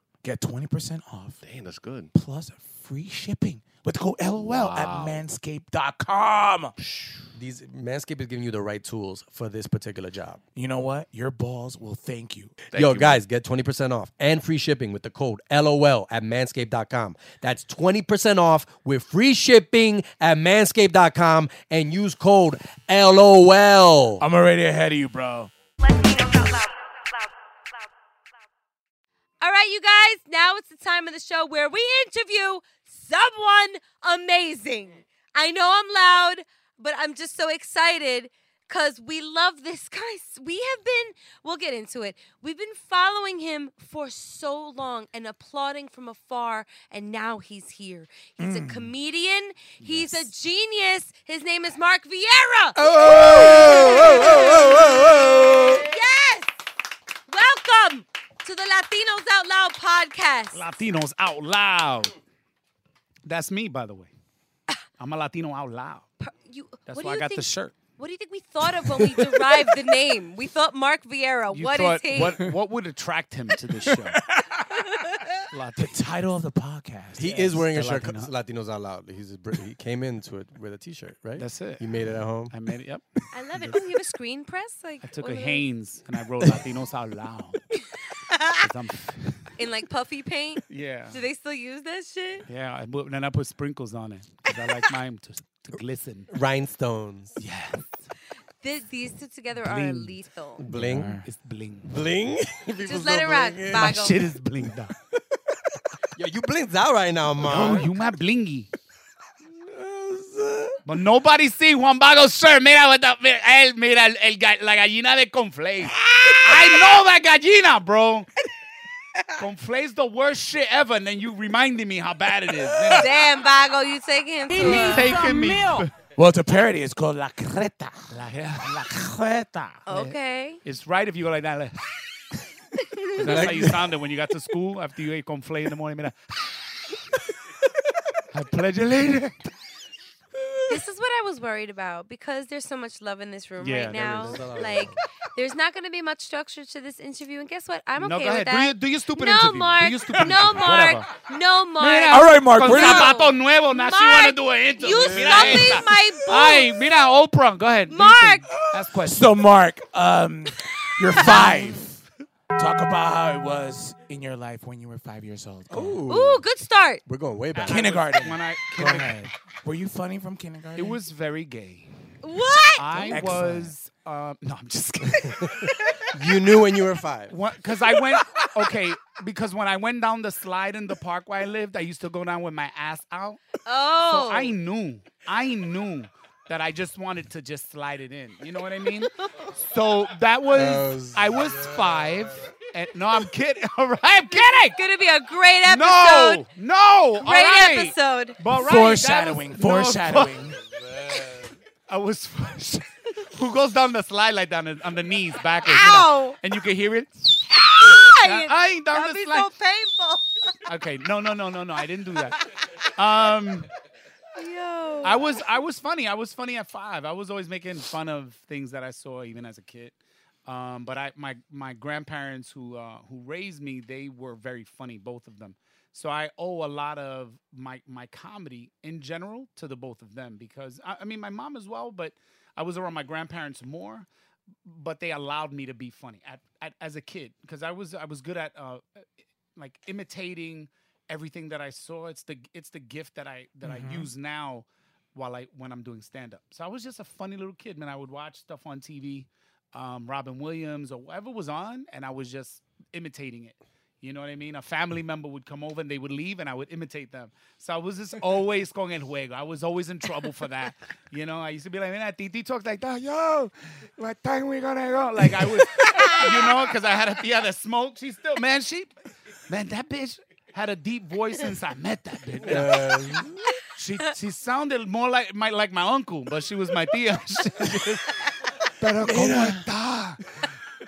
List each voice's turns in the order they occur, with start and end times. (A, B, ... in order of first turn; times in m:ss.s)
0:00.2-0:01.4 A
0:01.4-0:02.1 B
0:02.1-0:06.7 A
0:04.4-0:05.2 B
0:06.8-0:10.4 C
0:10.5-0:12.5 A
0:12.7-0:13.2 B
0:12.7-0:24.2 C
0:24.2-0:25.5 A
0:25.9-0:26.7 D
0:29.4-0:56.5 D
0:48.4-0:48.9 A
0:49.8-0:50.3 E
0:52.8-0:55.8 C
0:57.3-1:00.6 D
1:00.5-1:02.1 E
1:03.2-1:04.1 E
1:05.0-1:06.1 E
1:06.2-1:12.4 D
1:06.9-1:07.8 E
1:11.5-1:14.2 E
1:13.9-1:15.0 A
1:14.9-1:15.3 D
1:15.5-1:16.0 E
1:15.8-1:17.4 A
1:17.2-1:22.5 C
1:17.3-1:18.3 E
1:21.4-1:21.9 E
1:22.5-1:23.8 E
1:23.3-1:25.6 D
1:25.0-1:27.6 E
1:28.3-1:28.6 D
1:28.6-1:29.5 E
1:29.6-1:32.4 D
1:30.7-1:31.2 E
1:32.5-1:36.3 E
1:36.3-1:37.3 C
1:37.4-1:37.9 E
1:38.6-1:40.6 D
1:39.6-1:40.2 E
1:40.6-1:41.2 C
1:40.7-1:41.3 A
1:41.2-1:42.0 E
1:41.9-1:44.1 C
1:42.8-1:44.2 D
1:43.7-1:44.9 E
1:46.1-1:48.0 C
1:47.4-1:48.7 E
1:49.5-1:50.8 C
1:50.8-1:58.3 E
1:56.2-1:56.6 C
1:59.4-2:03.1 E
2:02.9-2:05.3 D
2:04.5-2:08.1 A
2:04.6-2:05.9 E
2:08.1-2:09.1 E
2:08.7-2:09.8 A
2:09.9-2:10.6 D
2:09.9-2:11.8 E
2:12.9-2:13.2 D
2:13.2-2:16.8 E
2:13.2-2:13.8 C
2:18.3-2:19.5 E
2:20.7-2:36.7 D
2:23.6-2:24.5 E
2:24.0-2:25.0 C
2:28.0-2:31.1 E
2:31.8-2:39.3 E
2:32.1-2:33.2 A
2:34.9-2:35.8 C
2:37.9-2:38.5 D
2:39.0-2:42.0 A
2:41.1-2:41.8 E
2:42.6-2:46.0 A
2:45.7-2:46.4 C
2:46.1-2:47.0 D
2:47.0-2:47.9 C
2:47.6-2:49.3 E
2:47.6-2:51.0 A
2:50.8-2:51.9 E
2:52.2-2:53.2 D
2:52.8-2:55.7 E
2:53.0-2:53.7 A
2:55.2-2:55.6 C
2:56.1-2:57.4 C
2:57.3-3:14.8 E
3:03.6-3:04.6 D
3:09.2-3:09.5 D
3:10.5-3:12.5 C
3:14.3-3:16.4 D
3:15.6-3:20.4 E
3:17.2-3:18.4 D
3:18.5-3:20.6 A
3:20.7-3:21.5 C
3:21.9-3:29.5 E
3:25.6-3:26.4 D
3:27.8-3:30.5 D
3:30.6-3:32.4 E
3:33.0-3:33.7 E
3:34.4-3:35.5 D
3:35.0-3:54.1 E
3:54.6-3:58.8 E
3:59.6-4:28.9 E
4:03.6-4:04.1 A
4:25.9-4:26.2 D
4:29.5-4:33.1 E
4:32.4-4:33.4 C
4:33.7-4:38.1 E
4:38.8-4:40.2 E
4:39.0-4:39.7 A